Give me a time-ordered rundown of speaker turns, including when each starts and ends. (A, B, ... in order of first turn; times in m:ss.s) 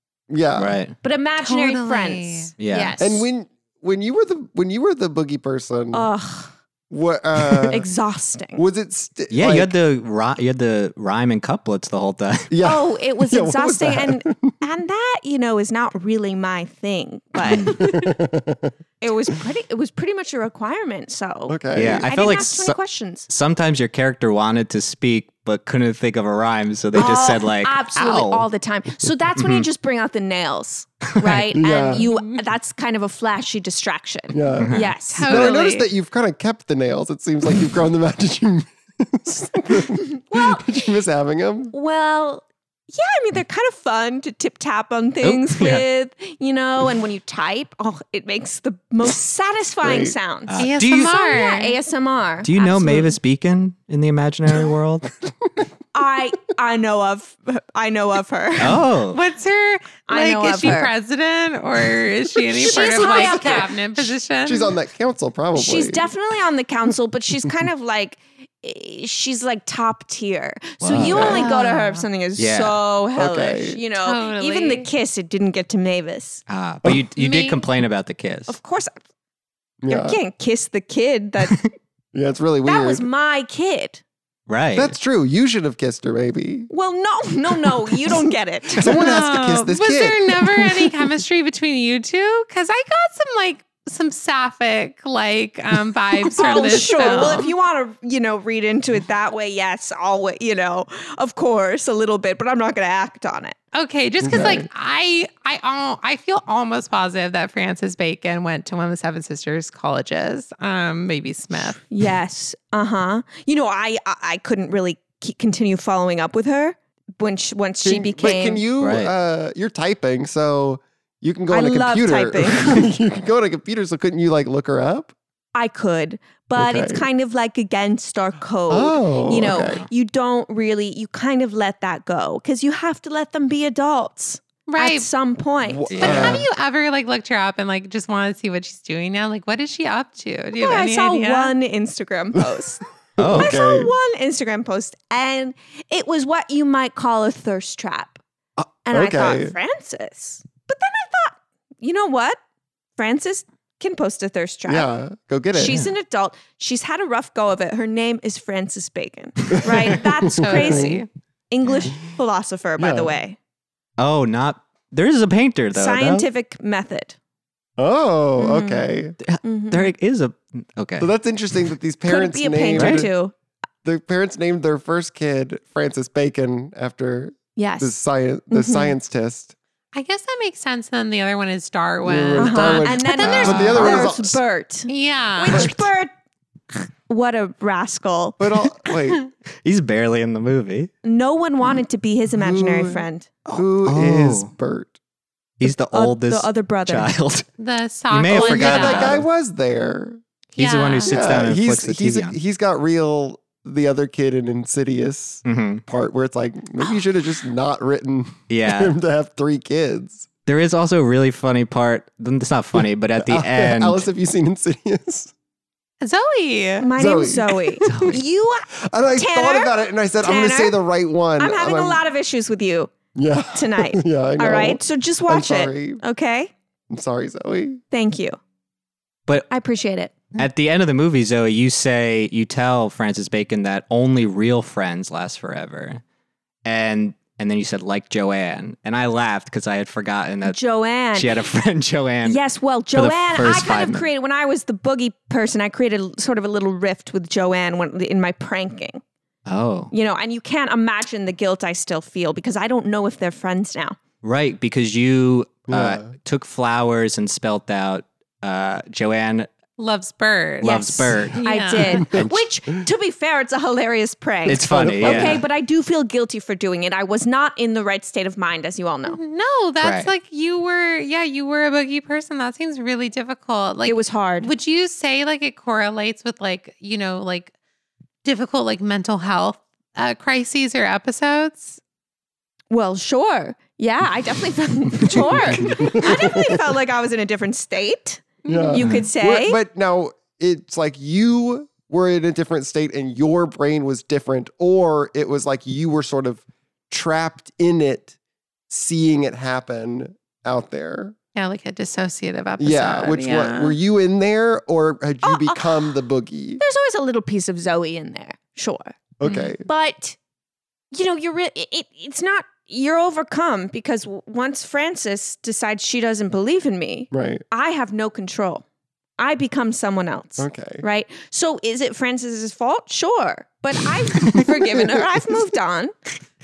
0:00.3-0:00.8 A
0:00.6-0:00.9 B
0:01.0-0:03.2 C
0:01.4-0:02.5 D
0:02.6-0:03.0 B
0:03.0-0:06.1 A
0:05.9-0:06.5 C
0:06.9-0:07.9 A
0:07.7-0:08.6 C
0:08.6-0:09.7 A
0:09.3-0:12.5 B
0:12.5-0:14.5 A
0:12.6-0:18.1 C
0:17.4-0:18.7 A
0:19.0-0:23.3 C
0:21.5-0:22.2 A
0:21.7-0:28.5 B
0:26.9-0:35.6 C
0:29.4-0:29.7 B
0:31.2-0:31.5 B
0:31.5-0:32.1 A
0:32.0-0:32.4 D
0:34.3-0:41.7 A
0:34.6-0:34.9 B
0:35.1-0:35.9 D
0:40.1-0:40.9 C
0:41.7-0:53.1 C
0:45.2-0:45.8 B
0:49.8-0:50.1 A
0:50.5-0:51.1 B
0:50.6-0:51.8 D
0:52.4-0:55.1 B
0:55.9-0:58.9 C
0:58.6-0:59.2 B
0:59.1-1:04.7 D
1:00.1-1:00.9 C
1:02.5-1:04.1 C
1:03.2-1:03.4 A
1:04.4-1:06.1 A
1:05.5-1:16.4 C
1:10.8-1:11.5 B
1:11.0-1:11.5 A
1:11.2-1:12.0 D
1:12.4-1:12.8 B
1:13.2-1:13.8 A
1:14.0-1:14.9 D
1:16.5-1:18.5 B
1:17.2-1:17.6 D
1:18.5-1:19.0 C
1:19.8-1:20.2 A
1:19.9-1:21.7 C
1:22.1-1:23.0 A
1:22.6-1:24.0 C
1:24.5-1:24.9 B
1:24.7-1:26.7 A
1:26.7-1:29.1 C
1:27.6-1:31.0 A
1:28.8-1:37.5 D
1:36.3-1:43.6 C
1:36.7-1:37.3 A
1:43.7-1:51.8 D
1:44.2-1:44.7 A
1:51.9-1:58.6 C
1:57.8-2:05.1 A
1:58.8-1:59.1 B
2:01.5-2:02.9 C
2:05.5-2:16.3 C
2:06.6-2:07.0 A
2:08.7-2:09.8 A
2:09.4-2:09.9 B
2:14.7-2:15.1 D
2:15.6-2:16.5 A
2:15.9-2:16.4 B
2:16.0-2:21.5 D
2:20.5-2:28.2 C
2:23.2-2:23.9 A
2:23.2-2:23.6 B
2:28.9-2:32.4 C
2:28.9-2:29.5 A
2:33.0-2:34.9 C
2:34.6-2:35.8 A
2:35.5-2:43.4 C
2:39.6-2:41.0 A
2:40.3-2:41.1 D
2:42.8-2:43.1 A
2:44.0-2:46.3 B
2:45.7-2:47.2 C
2:47.8-2:49.2 A
2:48.4-2:48.9 C
2:49.2-2:51.1 B
2:49.4-2:49.9 C
2:51.0-2:53.1 A
2:52.1-2:53.3 C
2:52.7-2:53.0 B
2:53.8-2:59.5 A
2:57.6-2:57.9 C
2:58.5-2:58.9 C
2:59.9-3:04.0 D
3:02.0-3:04.4 A
3:02.4-3:06.1 C
3:03.2-3:04.0 B
3:04.9-3:05.7 D
3:05.5-3:05.8 A
3:07.1-3:08.9 C
3:08.4-3:09.2 A
3:09.6-3:10.9 B
3:11.0-3:13.3 C
3:12.3-3:14.9 A
3:13.5-3:14.5 B
3:15.6-3:17.4 B
3:15.6-3:17.1 C
3:17.6-3:19.2 D
3:18.1-3:19.2 B
3:18.3-3:20.2 A
3:20.6-3:21.1 D
3:20.6-3:22.4 B
3:21.0-3:30.3 A
3:25.4-3:25.8 B
3:28.5-3:28.9 B
3:30.4-3:34.0 B
3:33.2-3:35.3 A
3:36.0-3:36.9 D
3:36.8-3:40.7 C
3:37.0-3:38.0 A
3:37.8-3:38.2 B
3:38.8-3:42.0 A
3:41.4-3:42.9 C
3:43.1-3:46.0 A
3:43.5-3:46.5 C
3:46.9-3:47.8 A
3:47.9-3:48.4 C
3:49.5-3:50.2 C
3:50.3-3:56.0 B
3:56.6-4:00.6 B
4:00.4-4:01.4 C
4:01.1-4:02.4 B
4:02.2-4:09.0 C
4:02.9-4:04.0 B
4:09.4-4:09.9 B
4:09.9-4:14.0 C
4:14.2-4:19.5 B
4:15.7-4:16.1 A
4:19.8-4:20.7 D
4:20.6-4:21.4 B
4:20.6-4:29.2 C
4:21.3-4:22.0 D
4:22.0-4:22.4 B
4:24.4-4:25.4 B
4:24.5-4:25.4 A
4:29.1-4:37.5 D
4:29.8-4:30.1 B
4:33.9-4:34.5 C
4:38.2-4:41.8 D
4:42.7-4:49.6 C
4:45.1-4:46.6 A
4:48.4-4:48.8 D
4:48.4-4:58.1 A
4:58.7-5:01.1 A
5:01.3-5:03.8 D
5:02.6-5:06.6 A
5:05.2-5:05.9 C
5:06.6-5:09.0 C
5:09.2-5:09.7 A
5:09.6-5:10.2 C
5:10.9-5:18.6 C
5:17.1-5:17.4 A
5:19.2-5:25.9 C
5:20.4-5:20.8 A
5:24.2-5:25.1 A